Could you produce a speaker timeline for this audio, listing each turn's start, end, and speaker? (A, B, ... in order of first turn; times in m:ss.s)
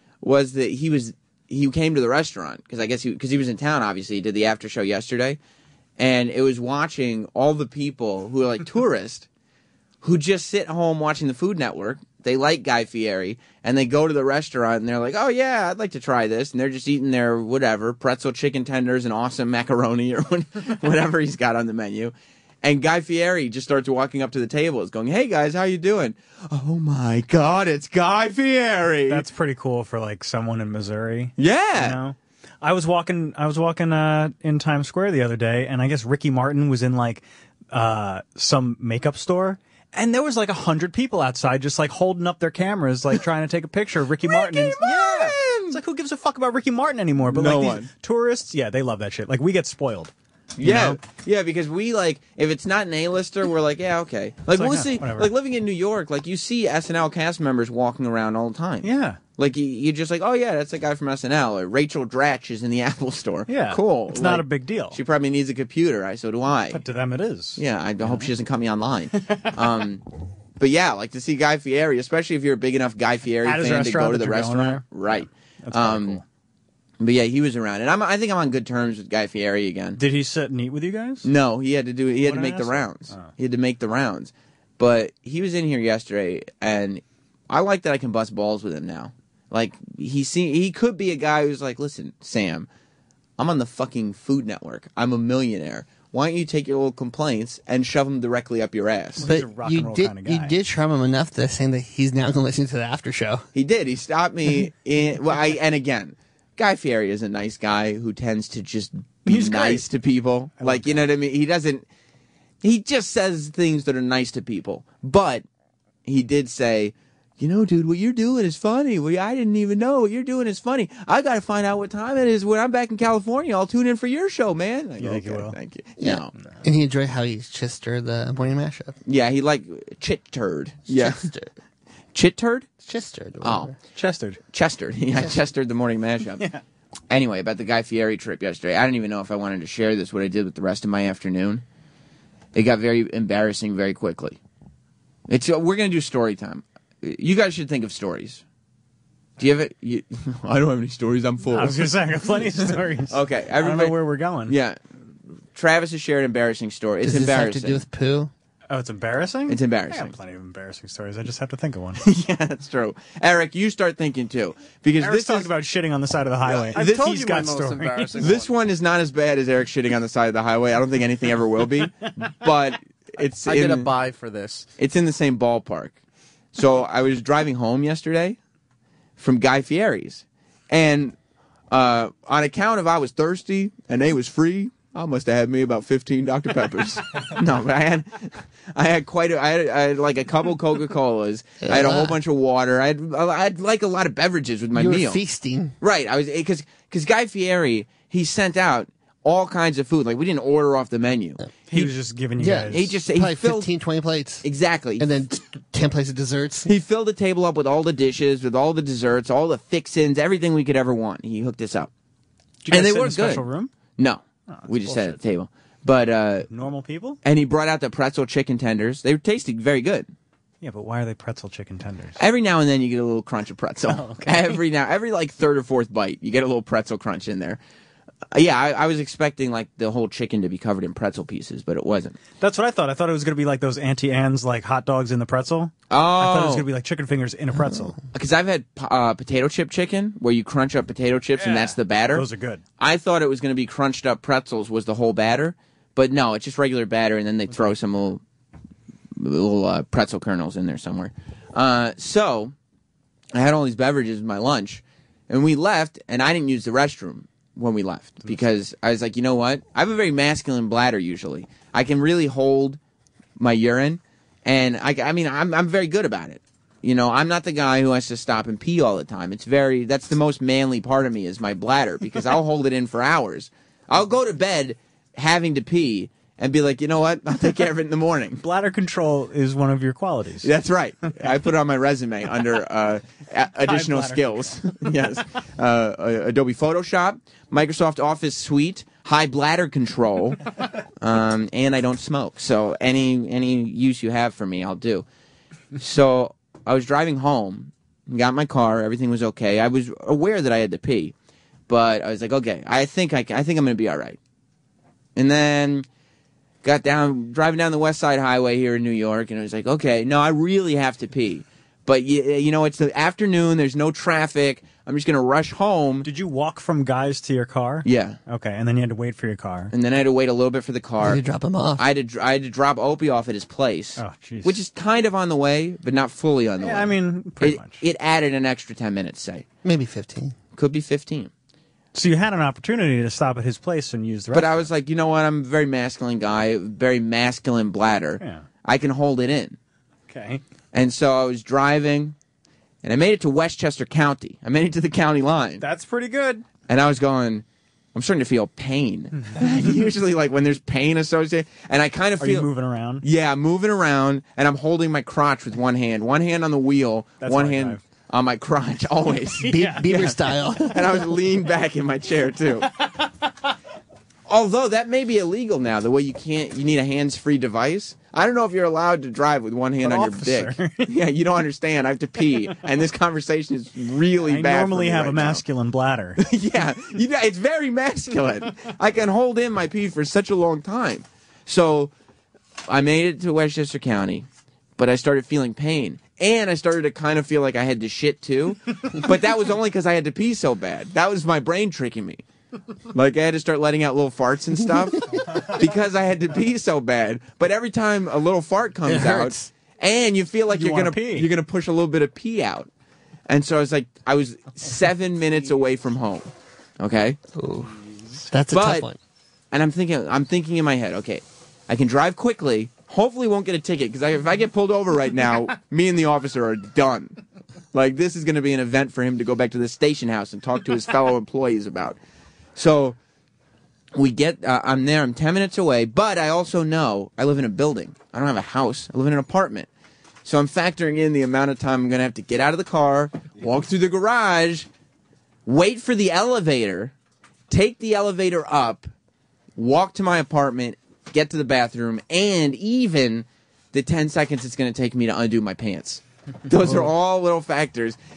0:00.2-0:05.4 A
0:06.0-0:09.3 A
0:10.0-0:29.2 A
0:29.1-0:51.0 B
0:31.4-0:32.0 A
0:44.2-0:45.8 A
0:47.2-0:47.9 A
0:50.6-1:06.8 A
0:54.5-0:55.3 B
0:58.8-0:59.2 B
1:03.5-1:05.0 B
1:06.7-1:08.3 B
1:07.6-1:10.0 A
1:10.6-1:16.2 A
1:13.4-1:15.0 B
1:15.6-1:16.2 B
1:17.0-1:20.0 A
1:20.0-1:21.3 B
1:21.2-1:32.7 A
1:22.2-1:23.3 B
1:33.4-1:39.3 A
1:39.2-1:40.5 B
1:39.2-1:43.4 C
1:43.5-1:51.8 A
1:49.2-1:49.8 B
1:50.6-1:51.1 B
1:52.6-1:55.4 A
1:56.0-2:06.3 A
2:05.0-2:05.6 B
2:06.0-2:09.0 C
2:09.0-2:11.2 A
2:10.9-2:11.5 C
2:12.1-2:12.7 A
2:12.8-2:13.7 C
2:13.4-2:13.7 A
2:13.9-2:14.4 B
2:14.5-2:16.4 A
2:17.1-2:21.6 A
2:22.5-2:24.4 A
2:25.3-2:28.4 A
2:29.4-2:31.9 A
2:31.5-2:34.6 B
2:33.1-2:34.8 A
2:35.5-2:37.8 A
2:37.0-2:38.3 C
2:38.7-2:42.0 B
2:39.5-2:40.2 A
2:42.0-2:45.5 A
2:45.0-2:48.1 B
2:46.5-2:48.5 D
2:48.2-2:53.9 A
2:53.4-2:54.6 D
2:54.8-2:56.0 A
2:56.5-2:58.4 A
2:59.2-3:01.2 A
3:01.7-3:15.2 A
3:11.6-3:12.2 C
3:14.7-3:15.7 C
3:15.8-3:21.9 A
3:21.7-3:23.0 B
3:22.4-3:24.4 C
3:22.7-3:23.7 A
3:24.4-3:25.1 A
3:25.0-3:26.7 C
3:26.6-3:31.9 A
3:32.6-3:33.7 B
3:32.7-3:36.5 A
3:34.5-3:35.2 B
3:36.5-3:37.2 B
3:37.2-3:40.1 A
3:40.6-3:42.2 B
3:42.2-3:47.6 A
3:43.9-3:44.6 B
3:48.3-3:52.2 A
3:52.4-3:58.0 B
3:55.9-3:56.6 A
3:58.1-4:02.2 A
4:01.4-4:02.6 B
4:02.8-4:08.2 A
4:09.1-4:12.5 A
4:13.3-4:22.8 A
4:23.4-4:38.4 A
4:38.4-4:40.5 B
4:40.4-4:50.4 A
4:43.6-4:44.5 B
4:51.0-4:55.0 A
4:55.8-5:01.1 A
5:01.7-5:04.2 A
5:05.2-5:05.8 A
5:06.6-5:16.1 A
5:16.0-5:19.7 B
5:17.8-5:18.2 A
5:19.7-5:21.2 A
5:21.0-5:21.8 C
5:21.8-5:29.4 A
5:24.0-5:24.6 B
5:26.6-5:27.8 B
5:29.6-5:30.3 C
5:30.6-5:31.3 A
5:31.9-5:34.7 B
5:34.3-5:39.6 A
5:40.1-5:40.4 B
5:40.7-5:42.1 A
5:42.8-5:45.6 A
5:45.6-5:46.4 B
5:46.7-5:52.5 A
5:52.2-5:53.0 B
5:53.0-6:02.7 A
5:57.2-5:57.8 B
5:59.3-6:00.1 B
5:59.4-6:01.1 C
6:04.3-6:15.4 A
6:09.8-6:11.0 B
6:14.2-6:16.2 B
6:16.2-6:21.9 A
6:22.7-6:32.2 A
6:32.9-6:42.7 A
6:38.8-6:39.5 C
6:40.5-6:41.3 B
6:43.3-6:46.3 A
6:46.8-6:47.2 A
6:47.3-6:47.7 C
6:48.3-6:49.0 C
6:48.5-6:48.9 A
6:49.5-6:57.2 A
6:57.7-7:02.0 A
7:02.6-7:03.0 A
7:03.9-7:09.7 A
7:10.2-7:14.7 A
7:15.4-7:16.9 A
7:17.5-7:18.9 A
7:19.6-7:28.0 A